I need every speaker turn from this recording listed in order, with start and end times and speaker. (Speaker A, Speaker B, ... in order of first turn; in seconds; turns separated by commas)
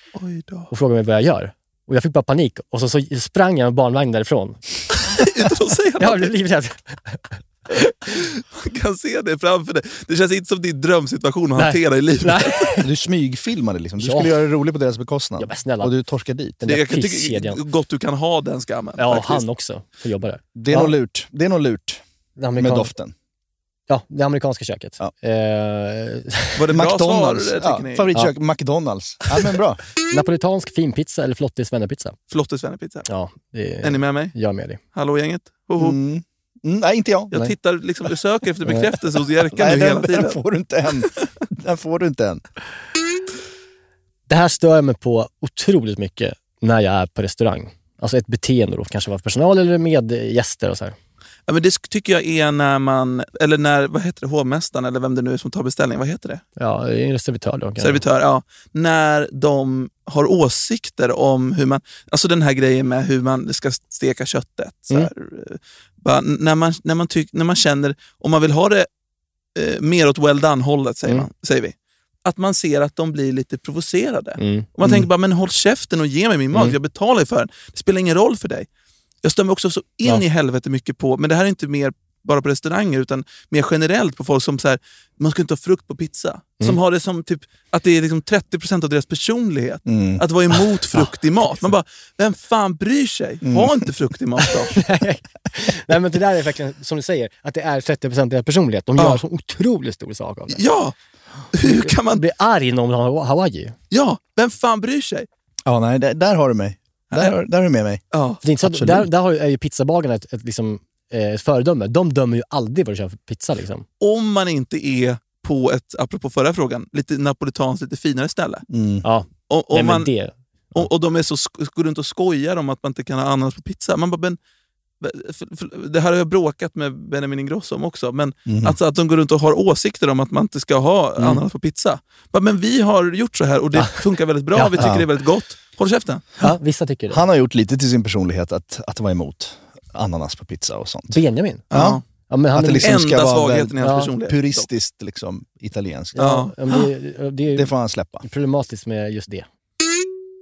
Speaker A: 0.1-0.7, Speaker B: 0.7-4.6, Speaker A: 5.0-6.3, Speaker B: 6.0-8.0, Speaker A: 8.1-12.7, Speaker B: 11.6-12.9, Speaker C: 12.8-16.6, Speaker B: 14.0-14.4, Speaker B: 15.4-15.9, Speaker B: 16.6-17.6, Speaker A: 16.7-19.4, Speaker B: 19.0-20.9, Speaker C: 20.6-22.0, Speaker B: 22.4-22.9, Speaker C: 22.6-23.1, Speaker B: 23.9-26.6, Speaker A: 26.6-28.1, Speaker C: 26.7-29.8, Speaker B: 30.1-32.2, Speaker A: 32.3-33.1, Speaker B: 33.1-34.8, Speaker A: 33.8-34.3, Speaker A: 34.9-36.0, Speaker C: 35.8-37.4, Speaker A: 37.3-40.4, Speaker C: 39.5-42.4, Speaker B: 44.3-51.0, Speaker A: 51.5-56.4, Speaker B: 56.6-58.0, Speaker A: 57.8-68.9, Speaker A: 69.6-78.7, Speaker B: 74.4-75.0, Speaker A: 79.2-94.8, Speaker C: 89.9-90.2, Speaker B: 90.9-91.7, Speaker C: 93.4-93.8, Speaker B: 94.7-100.6, Speaker A: 99.0-99.2, Speaker A: 100.5-101.0, Speaker A: 101.5-102.2, Speaker B: 101.6-103.8, Speaker A: 103.9-105.3, Speaker C: 105.7-108.0, Speaker A: 108.1-108.4, Speaker B: 108.4-113.9, Speaker C: 108.6-109.1, Speaker A: 114.0-118.7, Speaker C: 118.7-119.0, Speaker B: 119.0-120.3, Speaker A: 119.5-120.1, Speaker A: 120.7-124.4, Speaker A: 125.0-136.3, Speaker C: 128.5-128.8, Speaker B: 134.6-134.8, Speaker C: 134.8-135.1, Speaker B: 136.4-137.2, Speaker C: 137.1-141.2, Speaker B: 141.1-141.7, Speaker C: 141.7-142.0, Speaker A: 141.7-142.0, Speaker B: 142.3-143.0, Speaker C: 142.6-146.2, Speaker A: 142.8-144.7, Speaker B: 143.8-144.1, Speaker B: 146.2-147.7, Speaker A: 146.2-146.9, Speaker C: 147.5-148.3, Speaker B: 148.2-149.5